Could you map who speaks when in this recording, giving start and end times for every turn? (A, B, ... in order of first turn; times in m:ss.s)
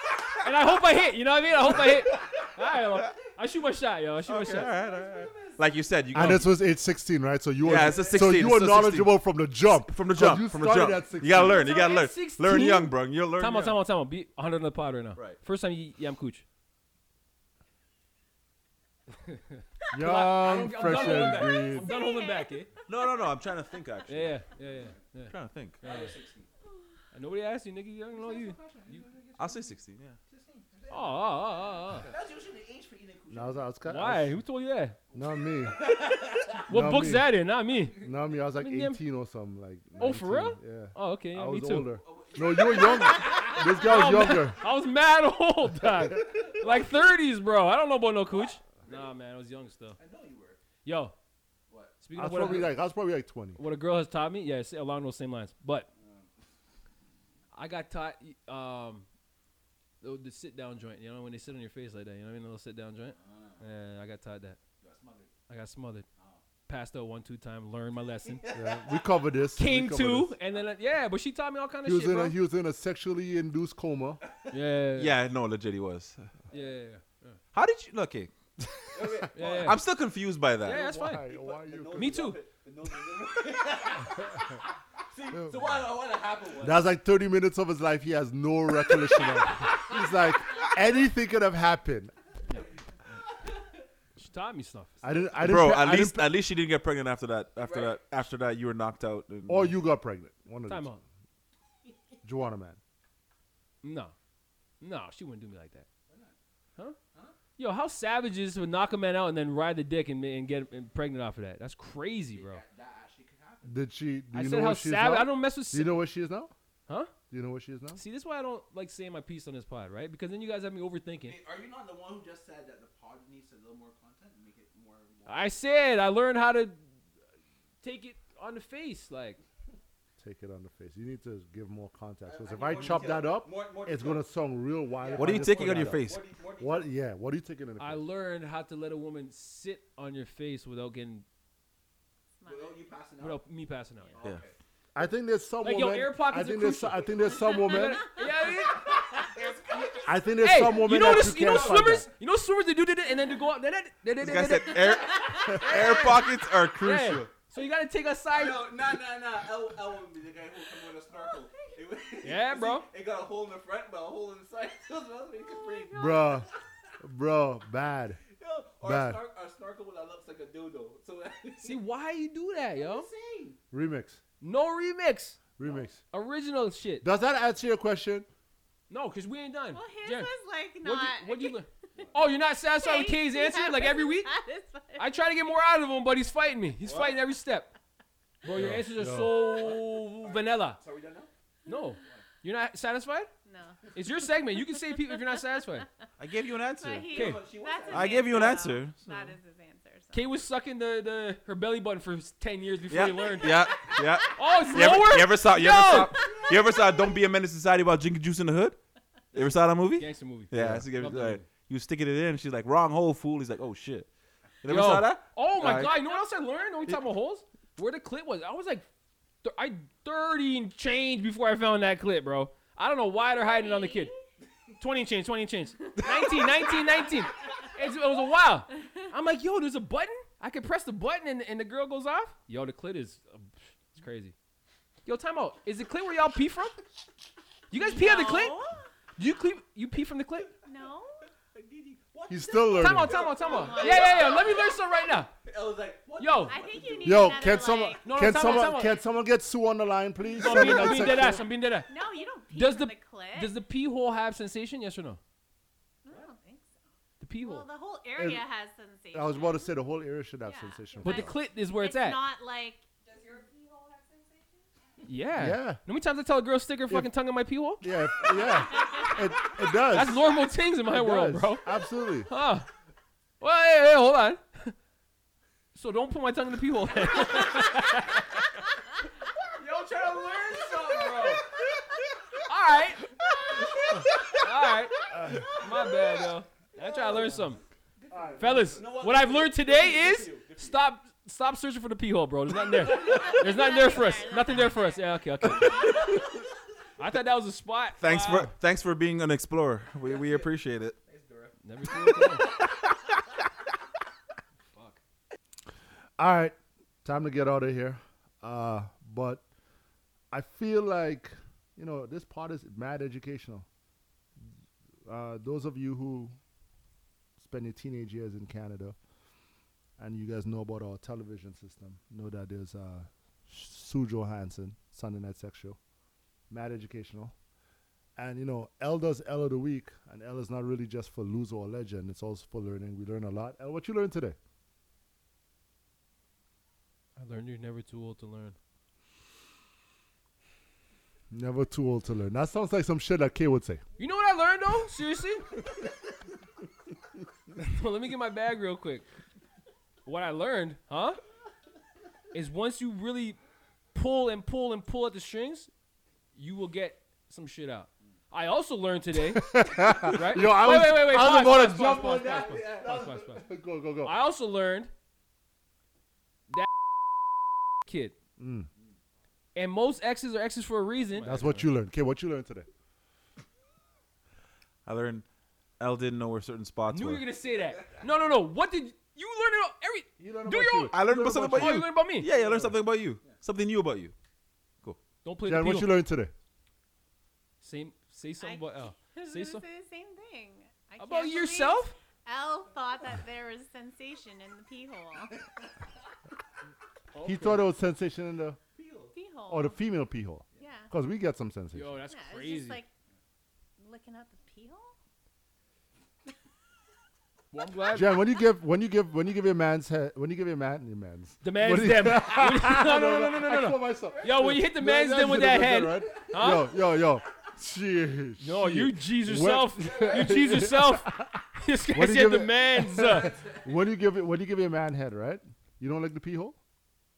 0:00.4-0:04.7 A
0:04.3-0:06.5 B
0:04.3-0:06.3 C
0:06.1-0:11.7 D
0:07.6-0:09.2 B
0:07.7-0:08.5 C
0:09.7-0:13.8 B
0:11.5-0:16.4 A
0:19.3-0:22.7 A
0:19.9-0:21.9 D
0:20.9-0:22.7 E
0:22.9-0:24.4 B
0:24.1-0:26.2 A
0:24.6-0:25.0 C
0:25.3-0:25.8 B
0:25.8-0:26.5 C
0:27.1-0:29.0 A
0:28.1-0:33.7 C
0:29.4-0:30.2 B
0:30.9-0:32.1 A
0:33.3-0:34.4 D
0:33.9-0:35.0 A
0:35.1-0:36.6 C
0:35.1-0:35.9 D
0:36.6-0:37.3 D
0:36.7-0:38.0 A
0:37.8-0:38.1 C
0:38.0-0:44.6 D
0:38.6-0:39.0 A
0:40.0-0:41.9 A
0:41.9-0:43.6 C
0:43.1-0:50.0 A
0:45.8-0:46.4 D
0:46.3-0:46.9 C
0:48.3-0:49.1 C
0:50.0-0:50.6 C
0:50.8-0:51.1 A
0:51.7-0:52.0 C
0:52.0-0:52.8 A
0:52.1-0:53.6 D
0:53.6-0:55.9 A
0:56.0-0:56.3 C
0:57.5-0:59.0 A
1:00.0-1:04.6 A
1:03.1-1:03.6 C
1:04.8-1:05.3 C
1:05.5-1:06.0 A
1:06.2-1:06.4 C
1:06.7-1:08.4 A
1:08.2-1:09.0 C
1:08.5-1:10.3 D
1:09.6-1:12.4 A
1:11.8-1:14.2 D
1:14.2-1:14.6 C
1:14.5-1:15.1 A
1:14.9-1:16.3 B
1:16.5-1:17.4 A
1:17.5-1:18.3 B
1:18.9-1:19.8 C
1:19.3-1:19.8 A
1:19.5-1:20.8 B
1:20.6-1:21.2 A
1:20.7-1:22.3 D
1:21.2-1:26.9 C
1:21.9-1:22.4 A
1:26.6-1:32.1 D
1:28.9-1:30.0 C
1:34.2-1:35.0 A
1:35.0-1:36.3 D
1:35.4-1:39.8 B
1:37.6-1:38.0 C
1:39.5-1:41.0 D
1:40.7-1:41.0 A
1:42.2-1:42.8 D
1:43.8-1:44.1 A
1:44.8-1:45.8 A
1:46.1-1:46.3 C
1:47.6-1:52.6 A
1:52.3-1:53.8 C
1:53.6-1:56.5 D
1:54.3-1:56.0 A
1:57.3-1:58.0 D
1:57.9-2:01.4 A
2:01.2-2:05.5 C
2:05.2-2:06.8 A
2:07.8-2:09.4 A
2:10.2-2:18.0 D
2:12.2-2:14.2 C
2:14.9-2:16.9 C
2:15.2-2:16.2 B
2:17.8-2:21.2 A
2:22.4-2:22.9 E
2:22.4-2:23.4 C
2:23.2-2:24.2 A
2:24.1-2:24.6 C
2:24.9-2:28.0 D
2:25.6-2:29.1 A
2:27.5-2:27.9 E
2:28.6-2:32.0 C
2:30.0-2:32.1 D
2:30.4-2:36.3 A
2:34.2-2:37.3 B
2:35.2-2:35.6 E
2:36.8-2:38.7 A
2:38.3-2:46.6 C
2:41.1-2:41.8 E
2:42.2-2:42.9 A
2:45.4-2:46.4 E
2:45.9-2:46.5 D
2:47.0-2:48.2 D
2:48.3-2:51.8 C
2:48.8-2:49.2 D
2:51.6-2:53.1 A
2:52.7-2:53.6 C
2:53.7-2:54.2 D
2:54.4-2:55.4 A
2:55.6-2:56.0 D
2:55.6-2:55.9 C
2:56.1-2:57.0 A
2:57.0-2:58.3 D
2:58.9-3:04.3 A
2:59.7-3:01.7 E
3:01.9-3:02.4 C
3:02.6-3:05.2 E
3:05.0-3:07.7 A
3:06.8-3:07.2 C
3:08.4-3:10.8 A
3:08.5-3:09.3 D
3:09.4-3:11.3 C
3:11.7-3:13.3 A
3:13.4-3:13.9 E
3:13.9-3:15.9 A
3:16.2-3:17.2 B
3:16.7-3:20.3 E
3:17.1-3:17.4 A
3:17.1-3:18.6 C
3:17.9-3:19.3 B
3:20.1-3:23.6 A
3:22.9-3:28.8 B
3:24.3-3:26.2 A
3:24.6-3:24.9 E
3:26.3-3:27.0 C
3:29.3-3:34.1 B
3:30.0-3:31.4 A
3:34.6-3:35.9 B
3:34.7-3:38.8 A
3:39.4-3:44.1 A
3:43.2-3:44.2 E
3:44.8-3:54.3 A
3:45.8-3:47.1 E
3:55.0-3:56.8 A
3:57.7-3:58.6 A
3:57.7-3:58.8 E
3:59.2-4:00.5 A
4:00.6-4:01.2 E
4:01.5-4:04.6 C
4:02.3-4:03.2 D
4:02.8-4:05.3 A
4:03.1-4:04.8 E
4:05.4-4:07.6 C
4:06.2-4:06.6 A
4:06.4-4:08.8 E
4:07.0-4:11.5 D
4:08.0-4:09.0 A
4:10.4-4:11.9 A
4:10.4-4:11.2 E
4:11.8-4:13.6 E
4:12.5-4:15.2 A
4:16.0-4:16.7 E
4:17.2-4:17.6 A
4:17.4-4:19.8 E
4:18.2-4:18.4 D
4:19.1-4:21.3 D
4:20.4-4:22.9 E
4:21.0-4:22.2 A
4:23.0-4:24.6 C
4:25.0-4:27.8 A
4:25.4-4:25.8 D
4:27.8-4:30.2 D
4:29.9-4:31.7 A
4:30.9-4:32.3 D
4:32.3-4:32.7 A
4:33.4-4:34.7 A
4:35.7-4:38.2 A
4:39.6-4:41.4 C
4:41.0-4:41.4 A
4:42.5-4:43.1 A
4:44.3-4:45.0 A
4:45.5-4:47.6 A
4:46.8-4:50.8 C
4:48.1-4:48.9 D
4:48.4-4:56.0 A
4:52.8-4:55.2 E
4:52.9-4:53.4 C
4:57.0-4:58.5 A
4:58.0-5:01.0 B
5:00.0-5:02.2 C
5:01.6-5:02.4 A
5:04.7-5:05.0 A
5:06.2-5:09.4 D
5:10.3-5:13.6 D
5:15.0-5:16.4 D
5:17.4-5:19.0 D
5:20.0-5:25.8 D
5:26.5-5:27.3 D
5:28.2-5:34.4 D
5:37.2-5:38.6 A
5:41.3-5:43.8 D
5:44.0-5:45.5 A
5:47.6-5:49.0 A
5:50.0-5:51.2 A
5:52.3-5:53.4 A
5:53.9-5:55.7 A
5:56.4-6:03.4 A
5:59.3-6:04.2 D
6:01.2-6:03.3 C
6:04.0-6:04.9 A
6:07.8-6:08.2 A
6:08.4-6:08.7 D
6:09.5-6:11.6 A
6:11.2-6:12.7 D
6:14.8-6:15.2 B
6:15.8-6:17.2 B
6:16.9-6:22.6 A
6:17.7-6:18.0 C
6:20.2-6:21.9 D
6:20.9-6:24.1 B
6:22.3-6:22.7 C
6:25.2-6:25.9 A
6:25.4-6:26.3 D
6:27.6-6:29.6 A
6:28.4-6:35.4 E
6:31.0-6:31.9 A
6:37.1-6:37.6 A
6:37.2-6:38.6 D
6:38.7-6:39.1 C
6:39.1-6:39.8 E
6:39.5-6:42.0 D
6:40.6-6:40.9 E
6:41.7-6:42.8 A
6:42.1-6:42.9 E
6:43.8-6:44.9 E
6:47.5-6:48.2 A
6:47.9-7:01.4 D
6:51.4-6:56.7 A
6:54.1-6:54.4 C
6:58.4-7:03.4 A
6:59.8-7:00.4 C
7:01.9-7:06.6 D